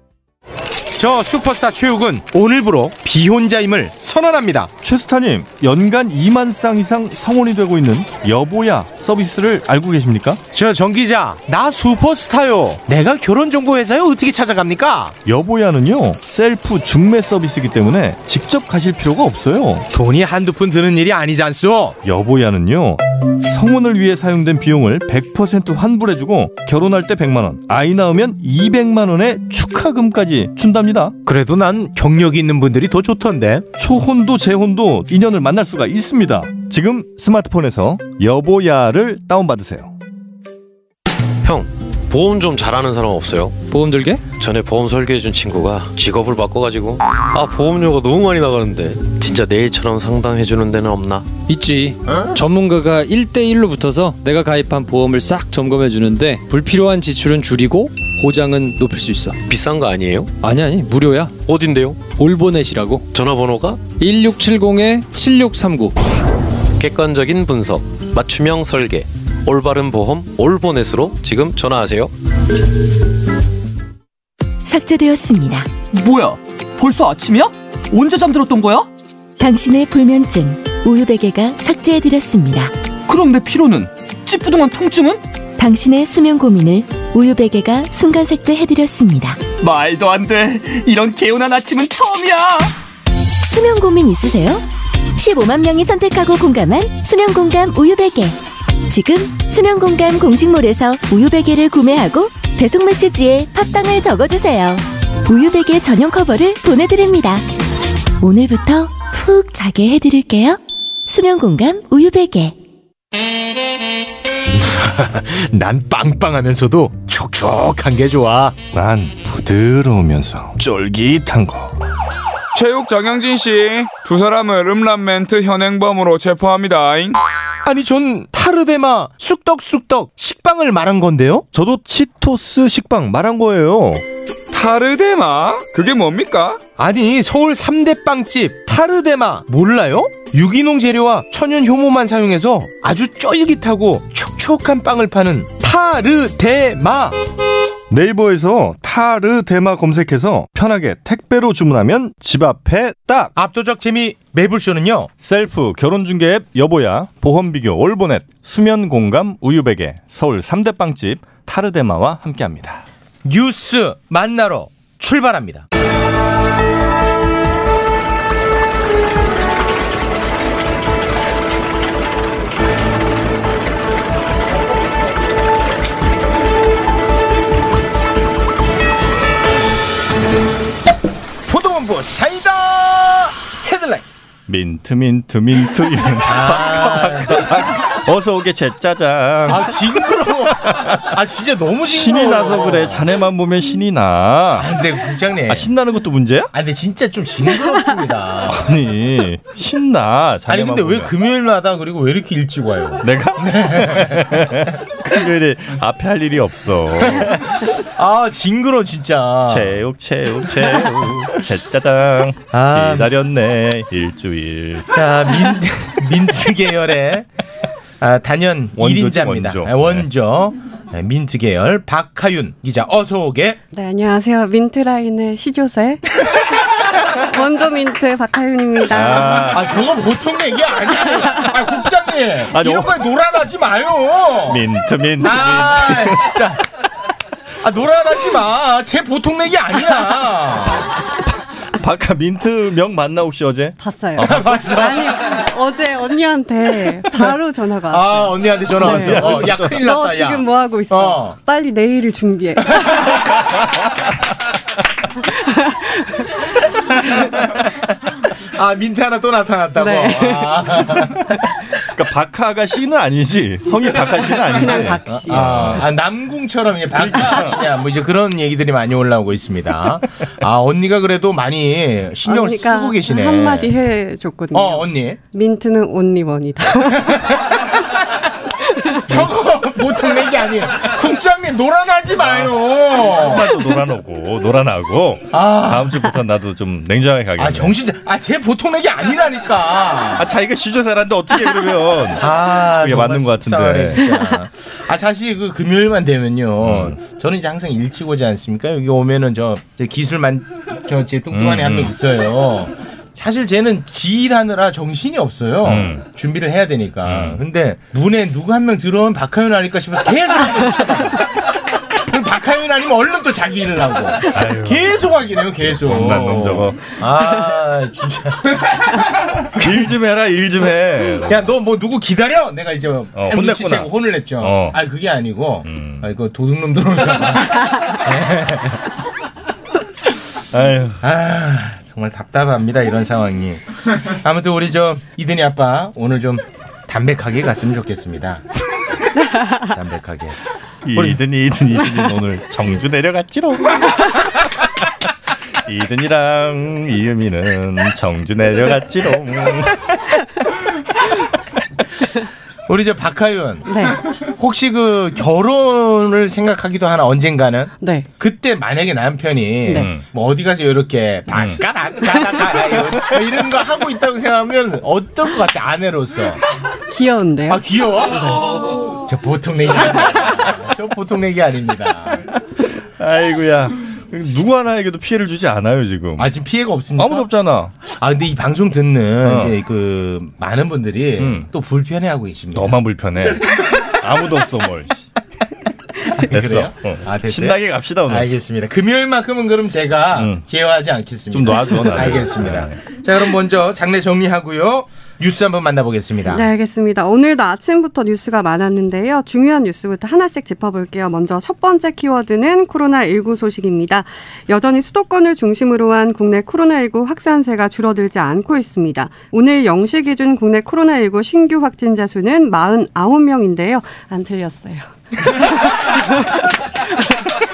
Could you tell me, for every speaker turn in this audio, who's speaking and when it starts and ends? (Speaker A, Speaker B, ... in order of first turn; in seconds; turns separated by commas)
Speaker A: 1.0-4.7, Speaker B: 4.8-10.4, Speaker A: 10.5-15.2, Speaker B: 15.2-19.9, Speaker A: 19.9-22.0, Speaker B: 22.0-31.1, Speaker A: 31.2-33.6, Speaker B: 33.8-39.9, Speaker C: 41.4-43.6, Speaker D: 43.7-44.2, Speaker C: 44.4-51.3, Speaker D: 51.5-59.4, Speaker C: 59.5-60.3, Speaker D: 60.4-61.4, Speaker C: 61.4-62.1, Speaker D: 62.1-63.0, Speaker C: 63.1-63.8, Speaker D: 64.0-66.0, Speaker C: 66.8-72.1, Speaker E: 74.6-75.7, Speaker F: 75.9-78.9, Speaker E: 79.4-82.7, Speaker F: 83.0-85.2, Speaker E: 85.6-89.4, Speaker F: 89.6-92.7, Speaker E: 93.4-94.6, Speaker E: 95.2-107.4, Speaker E: 108.2-112.5, Speaker A: 114.7-118.7, Speaker B: 118.7-121.8, Speaker G: 122.5-127.2, Speaker A: 127.6-131.4, Speaker B: 131.5-134.0, Speaker G: 134.5-136.6, Speaker A: 136.8-147.2, Speaker B: 147.9-153.3, Speaker A: 153.3-155.1, Speaker B: 155.2-162.8, Speaker A: 163.2-165.6, Speaker A: 181.4-184.0, Speaker B: 184.5-189.9, Speaker A: 186.2-187.7, Speaker A: 189.5-193.1, Speaker B: 190.5-191.2, Speaker B: 191.8-194.7, Speaker A: 194.6-195.7, Speaker B: 195.5-196.5, Speaker A: 196.5-198.7, Speaker B: 198.4-201.1, Speaker A: 200.5-204.6, Speaker B: 203.0-207.7, Speaker A: 207.7-209.8, Speaker B: 209.5-215.0, Speaker A: 212.5-213.1, Speaker A: 214.9-217.2, Speaker A: 218.0-223.6, Speaker B: 218.8-220.1, Speaker H: 223.7-229.5, Speaker B: 228.9-229.7, Speaker A: 229.5-236.6, Speaker B: 232.5-233.0, Speaker B: 234.4-236.4, Speaker A: 237.6-240.9, Speaker B: 241.1-244.7, Speaker H: 243.8-253.1, Speaker A: 244.2-245.4, Speaker A: 247.9-251.3, Speaker B: 248.8-249.8, Speaker A: 252.7-253.4, Speaker H: 255.3-256.3, Speaker A: 256.9-257.7, Speaker A: 258.3-261.2, Speaker H: 259.8-261.1, Speaker B: 261.8-265.9, Speaker H: 264.1-265.5, Speaker A: 265.1-273.7, Speaker B: 266.9-267.6, Speaker H: 272.2-277.4, Speaker A: 274.5-275.2, Speaker A: 277.1-278.0, Speaker H: 278.6-279.1, Speaker A: 279.1-283.5, Speaker B: 282.2-287.8, Speaker A: 285.3-286.1, Speaker A: 287.4-290.3, Speaker B: 290.1-294.2, Speaker A: 292.2-319.8, Speaker B: 296.6-297.0, Speaker B: 301.3-301.9, Speaker B: 305.6-306.0, Speaker B: 307.0-307.4, Speaker B: 314.2-316.9, Speaker B: 319.5-321.5, Speaker A: 321.3-328.8, Speaker B: 323.1-324.8, Speaker B: 325.6-326.1, Speaker B: 330.5-331.0, Speaker A: 331.0-338.4, Speaker A: 339.5-340.4, Speaker B: 340.8-344.1, Speaker A: 340.9-341.2, Speaker B: 345.6-349.9, Speaker A: 352.7-366.4, Speaker H: 353.7-354.0, Speaker H: 357.8-358.1, Speaker B: 359.7-360.0, Speaker B: 361.3-361.6, Speaker H: 366.9-367.6, Speaker A: 367.5-372.2, Speaker B: 372.6-376.3, Speaker A: 376.2-377.3, Speaker B: 376.9-377.7, Speaker A: 377.8-382.8, Speaker B: 379.2-379.6, Speaker B: 381.2-381.5, Speaker B: 382.5-385.1, Speaker A: 383.3-383.9, Speaker A: 386.1-396.5, Speaker B: 386.2-388.3, Speaker B: 390.1-390.4, Speaker B: 391.3-392.8, Speaker H: 396.3-416.3